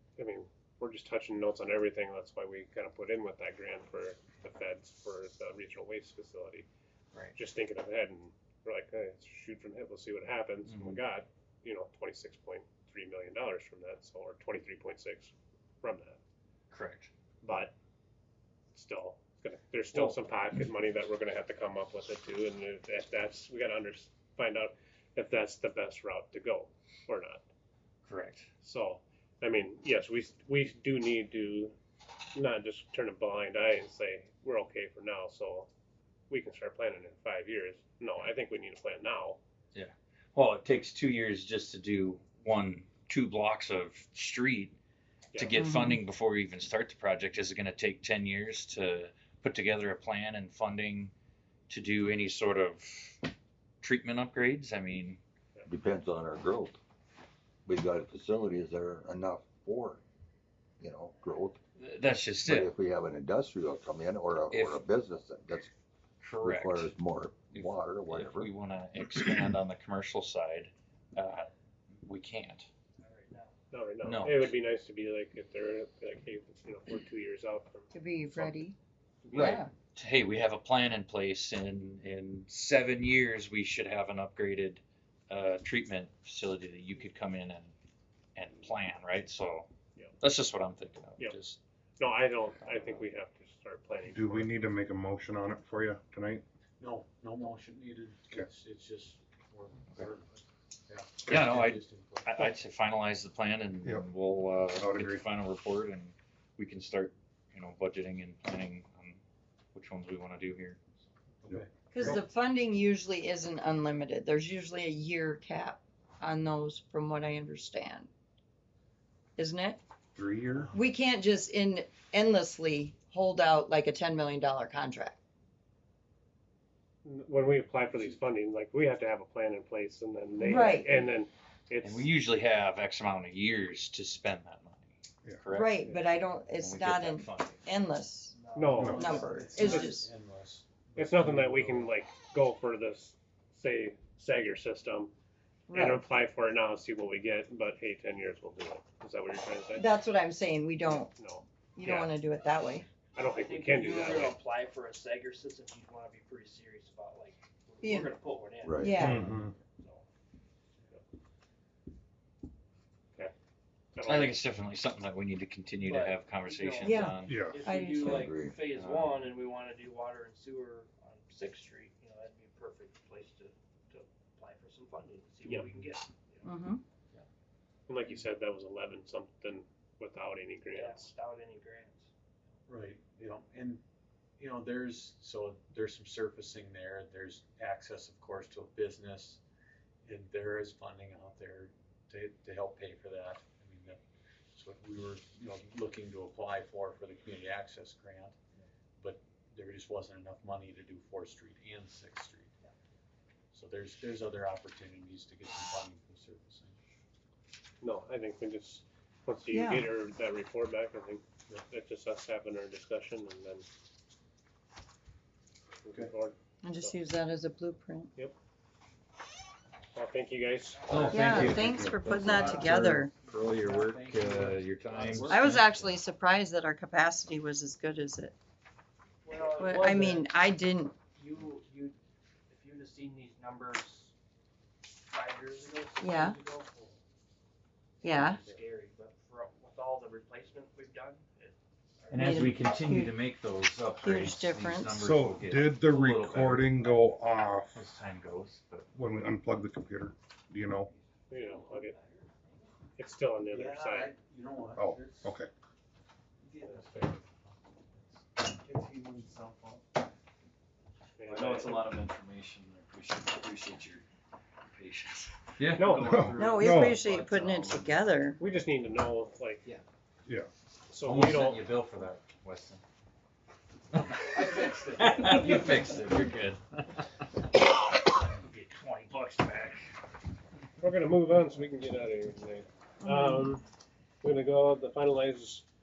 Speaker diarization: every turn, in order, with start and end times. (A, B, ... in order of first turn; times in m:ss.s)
0:00.2-0:06.7 A
0:07.4-0:16.2 A
0:10.6-0:11.0 B
0:16.7-0:17.1 B
0:17.4-0:17.7 A
0:18.8-0:27.4 A
0:19.9-0:20.2 B
0:28.0-0:28.5 B
0:28.6-0:31.8 A
0:32.4-0:35.7 A
0:36.3-0:39.4 A
0:39.7-0:44.8 B
0:45.4-0:51.1 B
0:45.6-0:46.0 C
0:51.7-0:55.2 B
0:55.7-0:56.8 D
0:57.7-1:00.0 D
1:00.8-1:01.6 D
1:01.8-1:02.7 B
1:02.4-1:05.7 D
1:04.5-1:04.9 B
1:06.2-1:06.9 B
1:06.4-1:08.5 D
1:07.5-1:12.7 B
1:13.0-1:13.6 E
1:13.7-1:18.6 A
1:14.0-1:14.5 B
1:17.9-1:18.8 C
1:19.2-1:19.6 A
1:19.3-1:27.7 B
1:19.4-1:19.7 C
1:28.4-1:29.7 B
1:30.2-1:31.6 B
1:32.0-1:34.7 A
1:32.6-1:33.0 B
1:34.1-1:36.4 F
1:36.8-1:42.4 G
1:41.3-1:49.2 B
1:44.8-1:45.2 F
1:49.7-1:50.8 B
1:51.4-1:51.7 G
1:51.5-1:52.2 F
1:51.9-1:58.1 C
1:59.4-1:59.8 C
2:00.2-2:00.7 F
2:00.5-2:00.8 G
2:00.7-2:05.2 C
2:07.0-2:12.1 A
2:10.4-2:11.0 C
2:11.8-2:15.9 B
2:15.5-2:18.4 C
2:16.6-2:17.7 B
2:18.3-2:19.9 E
2:18.6-2:20.0 A
2:18.8-2:21.9 G
2:18.9-2:20.1 C
2:21.0-2:25.1 A
2:25.7-2:26.0 C
2:25.7-2:29.9 A
2:29.8-2:31.1 C
2:31.1-2:32.2 A
2:31.8-2:32.9 C
2:33.2-2:34.4 A
2:33.2-2:40.1 E
2:37.8-2:38.2 C
2:38.6-2:38.9 D
2:38.8-2:39.2 C
2:38.9-2:39.5 F
2:44.0-2:44.4 A
2:44.0-2:47.3 B
2:45.8-2:56.5 E
2:46.8-2:48.3 C
2:47.3-2:47.6 F
2:48.0-2:48.6 D
2:48.7-2:49.3 B
2:55.4-2:55.9 A
2:56.4-2:56.8 C
2:57.9-3:01.1 A
3:00.7-3:02.1 E
3:02.7-3:03.8 G
3:04.4-3:09.4 G
3:10.0-3:14.0 G
3:14.5-3:18.4 G
3:19.0-3:22.6 G
3:23.5-3:26.8 G
3:27.8-3:33.7 A
3:29.5-3:29.9 C
3:35.8-3:37.0 A
3:36.6-3:38.1 C
3:39.9-3:40.9 A
3:40.9-3:45.6 B
3:40.9-3:41.7 E
3:40.9-3:42.0 F
3:41.1-3:43.1 C
3:42.4-3:45.7 E
3:42.6-3:42.9 F
3:43.7-3:45.3 G
3:45.3-3:48.4 C
3:49.2-3:50.3 E
3:49.6-3:51.0 C
3:51.1-3:52.0 E
3:52.5-3:54.1 E
3:55.0-3:57.0 E
3:56.0-3:56.4 C
3:58.0-3:58.4 C
3:58.0-4:02.8 E
4:02.1-4:06.8 B
4:02.2-4:03.1 C
4:04.0-4:05.2 C
4:05.0-4:07.8 F
4:07.7-4:08.9 B
4:08.9-4:10.9 F
4:10.9-4:12.7 E
4:11.3-4:12.0 A
4:13.0-4:14.1 A
4:13.5-4:15.3 G
4:14.8-4:15.5 F
4:16.4-4:19.9 G
4:21.2-4:21.9 A
4:21.3-4:24.0 B
4:24.7-4:26.3 B
4:25.7-4:26.2 A
4:25.9-4:27.1 F
4:26.2-4:27.9 E
4:26.3-4:28.4 C
4:28.4-4:29.7 A
4:30.9-4:31.6 A
4:31.0-4:32.8 B
4:33.9-4:37.1 B
4:34.4-4:35.9 E
4:38.3-4:39.8 B
4:40.8-4:43.6 A
4:43.0-4:43.5 C
4:44.2-4:45.6 A